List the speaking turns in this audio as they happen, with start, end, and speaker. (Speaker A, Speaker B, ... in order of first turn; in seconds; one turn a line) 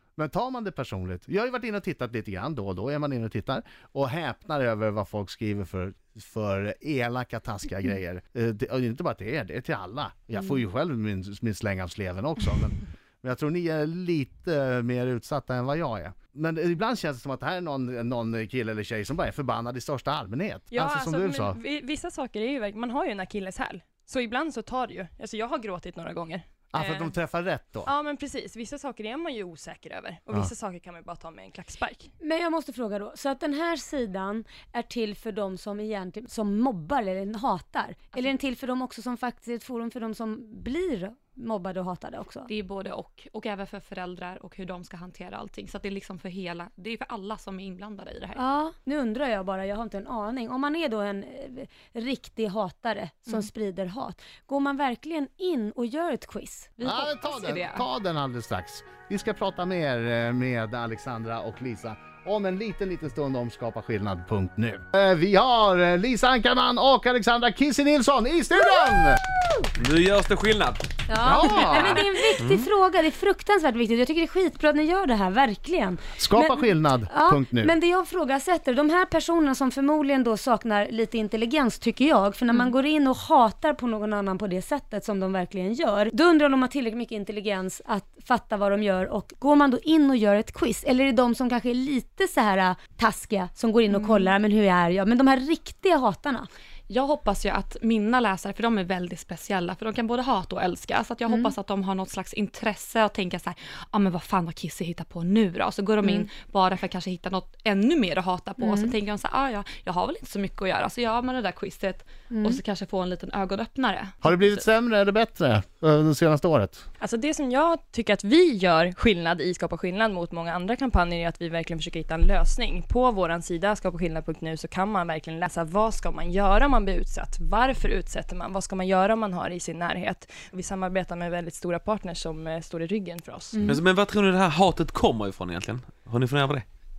Speaker A: 0.2-21.6
Speaker B: 20.7-27.2
Speaker A: 26.7-27.9
Speaker B: 27.9-32.1
Speaker C: 32.2-42.5
Speaker D: 42.5-48.4
Speaker C: 48.3-56.7
Speaker D: 56.8-57.9
Speaker A: 56.8-69.2
Speaker E: 69.8-70.9
Speaker C: 71.1-96.5
Speaker A: 71.2-72.0
Speaker E: 71.7-72.7
Speaker A: 76.2-77.7
Speaker D: 93.9-94.3
Speaker D: 96.9-114.6
Speaker C: 106.0-106.3
Speaker C: 108.6-108.9
Speaker C: 112.3-112.6
Speaker A: 114.2-116.8
Speaker B: 117.0-133.6
Speaker C: 133.5-133.8
Speaker E: 133.6-136.6